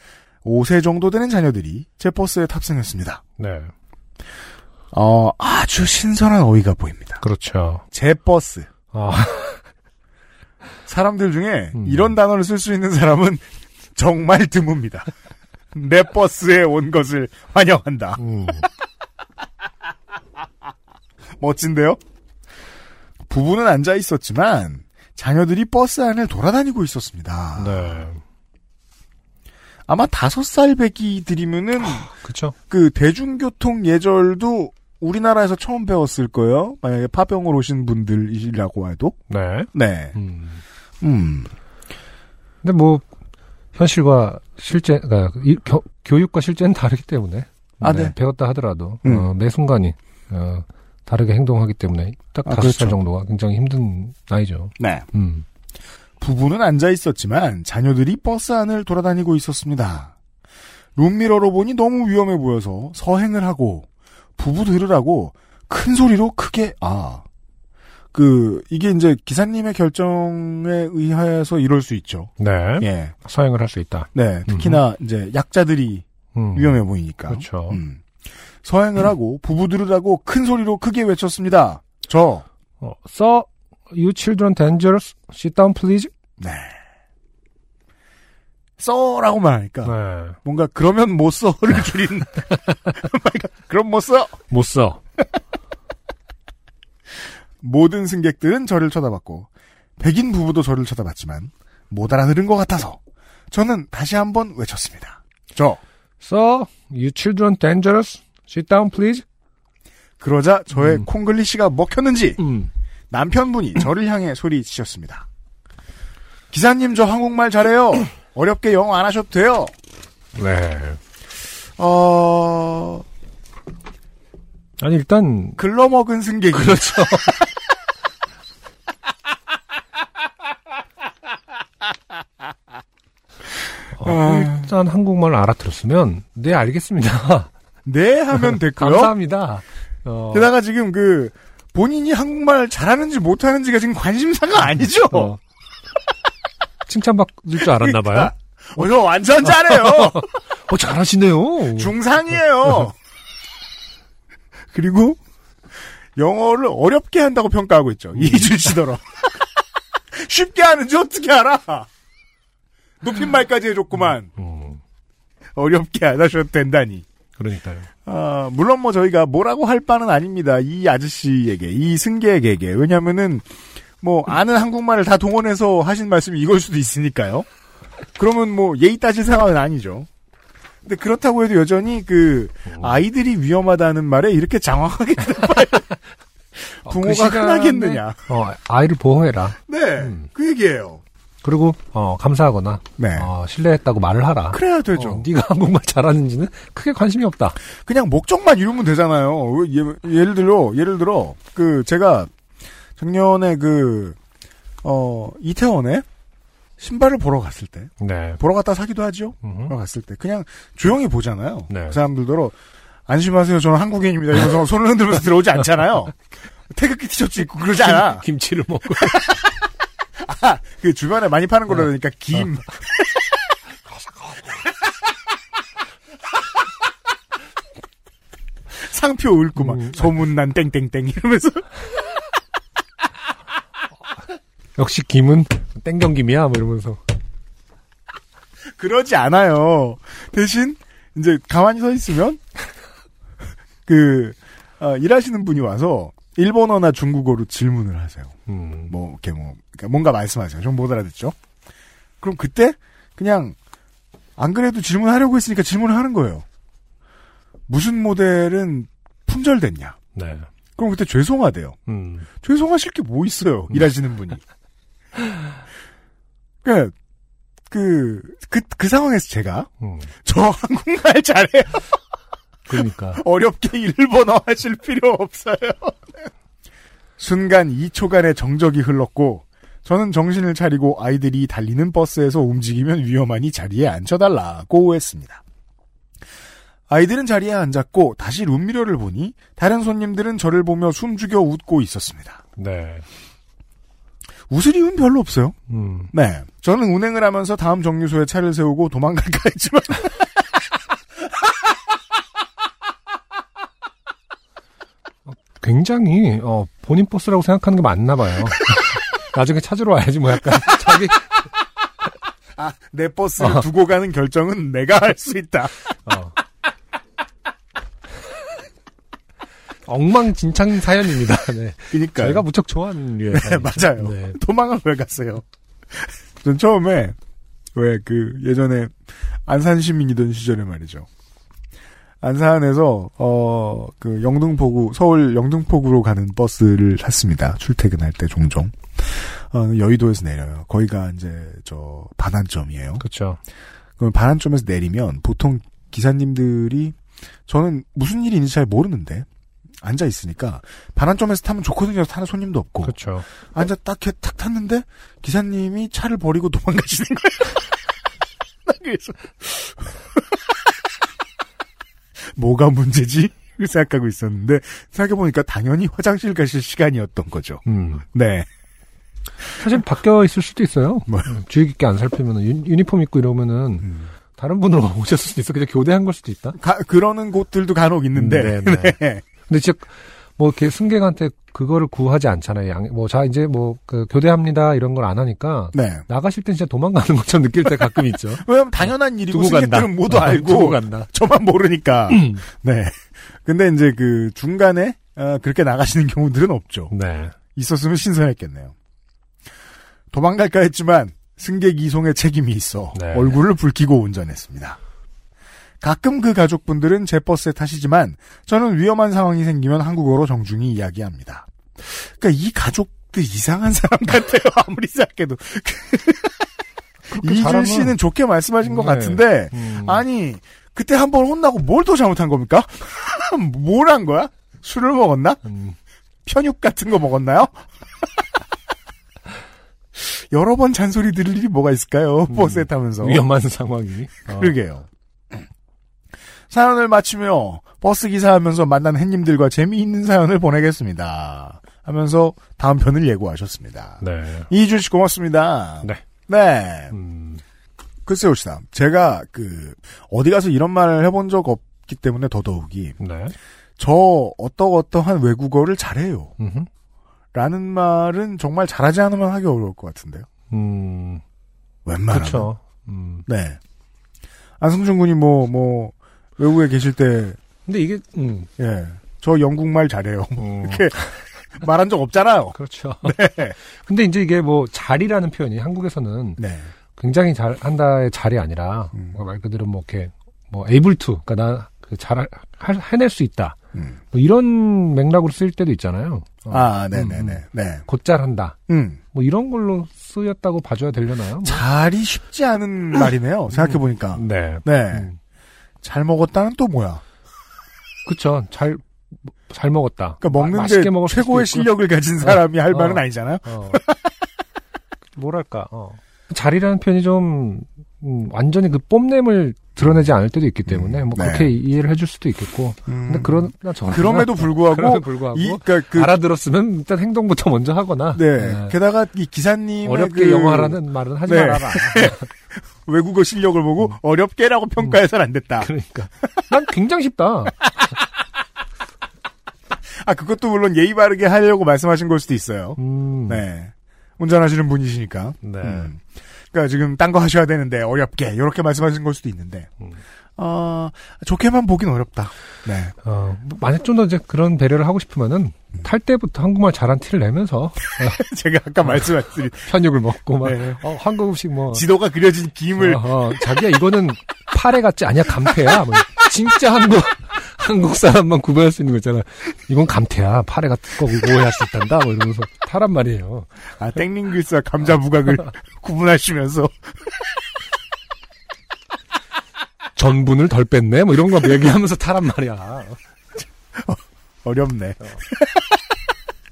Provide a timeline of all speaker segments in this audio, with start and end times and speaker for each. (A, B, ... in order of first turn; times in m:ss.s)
0:00.4-0:03.2 A
0:03.4-0:03.7 B
0:04.9-0:07.2 A
0:07.2-0:07.8 B
0:07.9-0:08.7 A
0:08.9-0:09.6 B
0:10.9-0:13.4 A
0:11.8-0:12.2 B
0:14.0-0:15.1 A
0:15.7-0:18.3 A
0:18.2-0:18.7 B
0:21.4-0:22.0 A
0:23.3-0:28.1 A
0:27.6-0:28.2 B
0:29.9-0:32.1 A
0:31.9-0:32.6 B
0:32.7-0:39.2 A
0:39.3-0:40.6 B
0:39.7-0:40.2 A
0:41.0-0:41.5 A
0:42.6-0:43.0 B
0:43.7-0:55.4 B
0:47.8-0:48.2 A
0:49.0-0:49.3 A
0:52.4-0:53.0 A
0:54.8-0:55.1 A
0:56.2-1:00.1 A
1:01.0-1:03.9 A
1:04.4-1:07.2 A
1:08.1-1:13.1 A
1:12.4-1:14.8 B
1:14.1-1:18.0 A
1:16.4-1:17.8 B
1:18.6-1:22.5 A
1:22.8-1:26.1 B
1:26.4-1:26.8 A
1:28.8-1:34.4 A
1:29.8-1:30.4 B
1:34.5-1:35.0 B
1:37.6-1:43.0 A
1:43.5-1:45.8 A
1:46.2-1:49.2 B
1:50.2-1:52.4 A
1:50.8-1:51.0 B
1:52.4-1:52.7 B
1:53.1-1:55.3 A
1:56.5-1:59.7 A
2:00.4-2:01.0 B
2:01.8-2:03.0 A
2:04.8-2:05.6 B
2:05.6-2:07.5 A
2:06.5-2:07.4 B
2:14.0-2:17.5 B
2:14.0-2:14.7 A
2:17.8-2:19.1 A
2:18.4-2:20.5 B
2:20.3-2:25.4 A
2:25.1-2:25.4 B
2:26.9-2:28.3 B
2:27.6-2:30.3 A
2:29.4-2:32.0 B
2:31.7-2:33.0 A
2:34.7-2:35.2 A
2:36.2-2:39.3 A
2:38.2-2:38.6 B
2:40.1-2:41.9 A
2:43.0-2:44.3 A
2:44.4-2:44.8 B
2:45.6-2:47.1 A
2:47.4-2:47.9 B
2:48.0-2:53.5 A
2:54.0-2:57.5 A
2:58.2-3:00.1 A
3:00.8-3:05.9 A
3:02.7-3:03.0 B
3:06.7-3:08.2 A
3:06.8-3:10.3 B
3:09.7-3:11.0 A
3:11.4-3:17.6 B
3:13.0-3:13.3 A
3:14.5-3:15.3 A
3:17.9-3:22.3 A
3:23.0-3:24.2 A
3:24.8-3:26.0 A
3:26.8-3:32.6 A
3:28.0-3:28.4 B
3:29.4-3:29.7 B
3:31.7-3:32.0 B
3:33.1-3:36.2 A
3:36.7-3:38.3 A
3:37.8-3:39.4 B
3:40.2-3:43.2 A
3:48.8-3:51.7 A
3:49.6-3:50.0 B
3:54.8-3:57.0 B
3:58.8-4:02.4 A
4:03.9-4:08.4 A
4:08.5-4:08.9 B
4:08.9-4:11.4 A
4:12.2-4:13.6 A
4:14.4-4:16.4 A
4:17.7-4:20.0 A
4:20.2-4:20.5 B
4:20.8-4:21.8 A
4:21.9-4:22.3 B
4:22.4-4:24.4 A
4:26.6-4:26.9 A
4:27.7-4:29.7 A
4:29.8-4:30.1 B
4:30.2-4:31.9 A
4:32.7-4:33.2 B
4:32.8-4:36.3 A
4:37.2-4:45.4 A
4:46.9-4:52.4 A
4:52.6-4:53.0 B
4:54.5-4:55.6 A
4:55.7-4:56.1 B
4:56.1-5:00.2 A
5:05.3-5:11.4 B
5:12.6-5:15.7 A
5:13.4-5:13.7 B
5:16.1-5:16.4 B
5:19.9-5:24.4 B
5:21.9-5:22.4 A
5:23.3-5:25.4 A
5:26.0-5:27.2 A
5:27.8-5:31.1 A
5:32.2-5:43.0 A
5:43.0-5:43.4 B
5:44.0-5:47.0 A
5:47.5-5:49.3 A
5:49.8-5:53.0 A
5:52.8-5:53.3 B
5:53.5-5:57.7 A
5:58.7-6:00.2 A
6:02.3-6:08.5 A
6:07.7-6:08.0 B
6:09.6-6:16.6 B
6:16.6-6:19.2 A
6:18.2-6:31.1 B
6:25.7-6:26.0 A
6:28.4-6:36.9 A
6:32.1-6:32.4 B
6:36.9-6:37.4 B
6:37.6-6:38.7 A
6:40.1-6:44.8 A
6:43.0-6:43.4 B
6:45.8-6:56.5 A
6:57.1-6:58.0 B
6:57.1-7:05.4 A
6:58.6-7:00.0 B
7:05.5-7:05.8 B
7:06.2-7:07.6 A
7:10.0-7:13.3 A
7:12.3-7:14.5 B
7:14.3-7:14.9 A
7:16.5-7:27.0 A
7:24.0-7:24.5 B
7:26.9-7:27.4 B
7:28.1-7:33.0 A
7:33.0-7:33.4 B
7:33.8-7:36.3 A
7:36.4-7:36.7 B
7:37.3-7:40.3 A
7:40.5-7:41.2 B
7:41.8-7:42.5 A
7:42.1-7:43.2 B
7:43.3-7:43.6 A
7:44.6-7:47.4 A
7:47.7-7:48.5 B
7:48.6-7:53.6 A
7:50.4-7:51.1 B
7:52.5-7:56.4 B
7:56.4-7:56.7 A
7:57.0-8:03.6 B
8:04.1-8:08.6 B
8:06.5-8:07.8 A
8:08.7-8:09.0 A
8:09.1-8:11.6 B
8:11.4-8:15.1 A
8:13.5-8:15.2 B
8:15.8-8:17.0 A
8:18.1-8:23.8 B
8:20.2-8:24.1 A
8:25.2-8:38.8 B
8:30.7-8:31.5 A
8:32.9-8:36.2 A
8:38.1-8:45.7 A
8:39.8-8:42.3 B
8:45.6-8:47.7 B
8:50.0-8:59.7 A
8:52.8-8:53.4 B
8:55.4-8:55.9 B
9:00.4-9:02.9 A
9:03.0-9:08.2 B
9:08.0-9:09.7 A
9:09.7-9:11.8 B
9:10.4-9:10.8 A
9:11.7-9:13.6 A
9:12.8-9:23.5 B
9:23.8-9:26.8 A
9:30.0-9:33.0 B
9:33.8-9:35.8 A